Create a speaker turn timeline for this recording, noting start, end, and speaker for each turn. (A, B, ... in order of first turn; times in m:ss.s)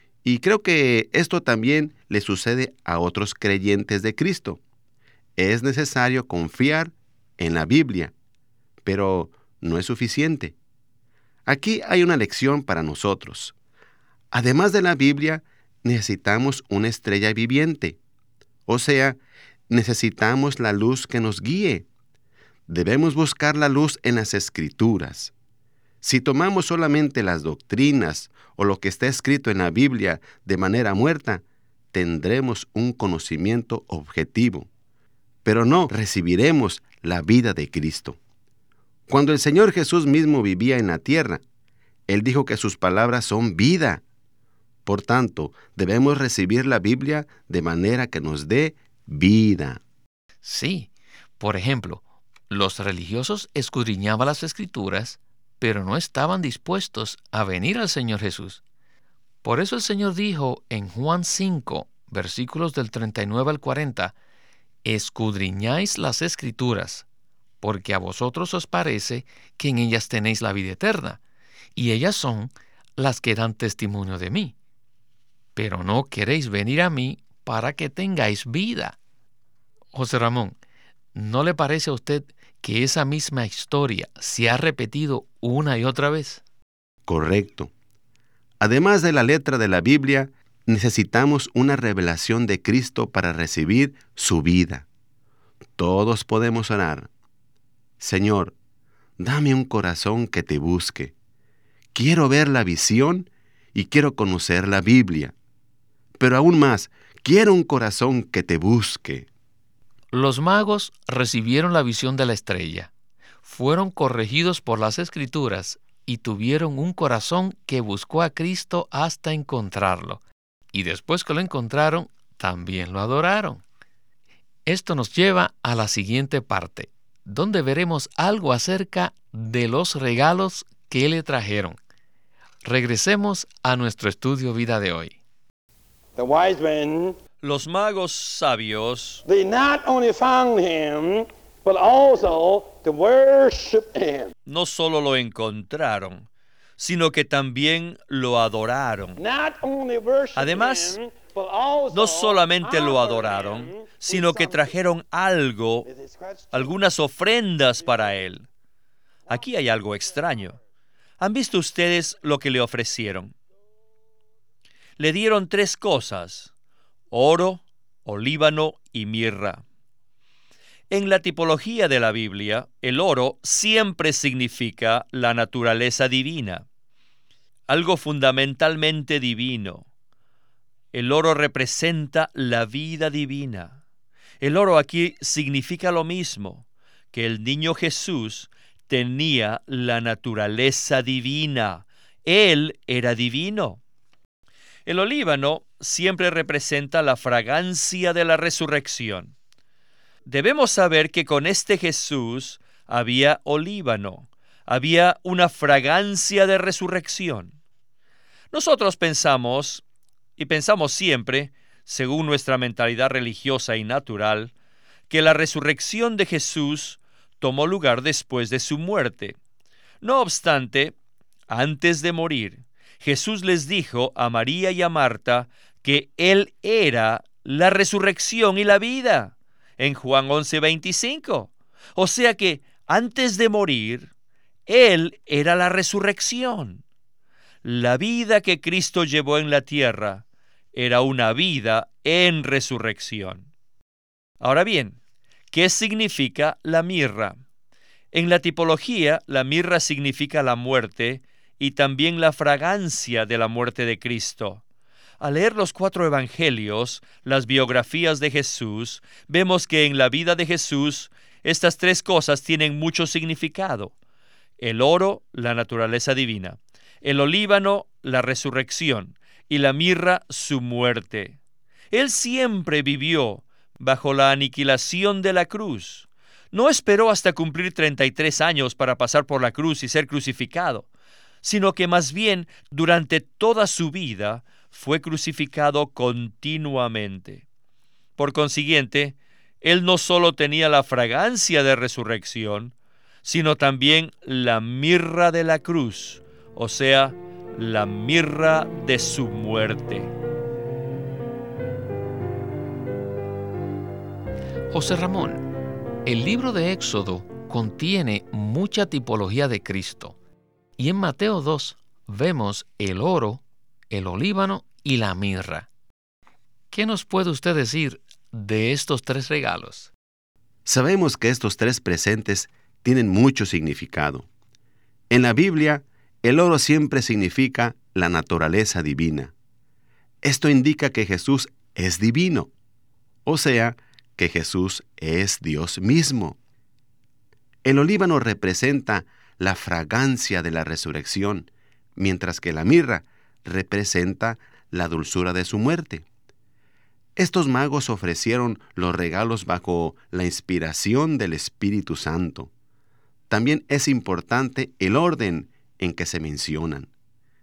0:00.2-0:04.6 A
0:05.4-0:08.1 A
0:08.8-0:10.6 A
0:11.4-0:13.5 A
0:14.3-0:18.0 A
0:18.7-0:21.8 A
0:22.7-0:25.3 A
0:26.0-0:34.7 A
0:35.4-0:38.2 A
0:39.1-0:41.4 A
0:42.1-0:44.0 A
0:44.8-0:49.8 A
0:50.4-0:58.6 B
0:59.4-1:04.1 B
1:04.8-1:07.0 B
1:07.6-1:11.2 B
1:11.8-1:14.5 B
1:15.6-1:19.0 B
1:19.9-1:20.6 B
1:21.1-1:26.4 B
1:27.1-1:27.7 A
1:28.6-1:34.8 A
1:35.8-1:37.1 A
1:38.0-1:38.5 A
1:39.2-1:41.1 A
1:41.9-1:45.3 A
1:46.2-1:49.3 A
1:50.1-1:52.9 B
1:53.4-2:00.2 B
2:00.7-2:03.6 B
2:04.6-2:11.8 B
2:12.6-2:15.2 B
2:16.1-2:17.2 C
2:17.4-2:19.2 D
2:19.3-2:24.3 C
2:24.5-2:26.3 D
2:26.8-2:29.2 D
2:29.2-2:34.7 C
2:30.4-2:31.0 D
2:31.9-2:35.9 D
2:35.8-2:36.7 C
2:36.5-2:38.4 D
2:39.3-2:40.6 D
2:41.2-2:43.3 D
2:45.0-2:46.5 D
2:47.1-2:49.6 D
2:50.9-2:56.6 D
2:57.7-2:59.8 D
3:00.9-3:03.8 D
3:04.4-3:13.8 D
3:14.8-3:19.3 D
3:20.2-3:27.5 D
3:28.5-3:29.8 D
3:30.4-3:34.5 D
3:35.1-3:39.4 D
3:40.0-3:40.9 D
3:41.5-3:54.1 D
3:54.7-3:56.8 D
3:57.6-4:03.5 D
4:04.4-4:05.0 D
4:05.5-4:07.4 D
4:08.1-4:14.6 D
4:15.2-4:23.9 D
4:24.6-4:31.4 D
4:31.9-4:40.8 D
4:41.4-4:47.4 D
4:48.2-4:52.7 D
4:53.2-5:00.1 D
5:04.7-5:05.4 B
5:06.0-5:10.2 B
5:10.8-5:15.7 B
5:16.7-5:19.9 B
5:20.6-5:24.3 A
5:25.1-5:29.3 A
5:30.2-5:32.5 A
5:33.2-5:36.4 A
5:37.6-5:46.0 A
5:47.2-5:52.5 A
5:53.3-5:56.9 A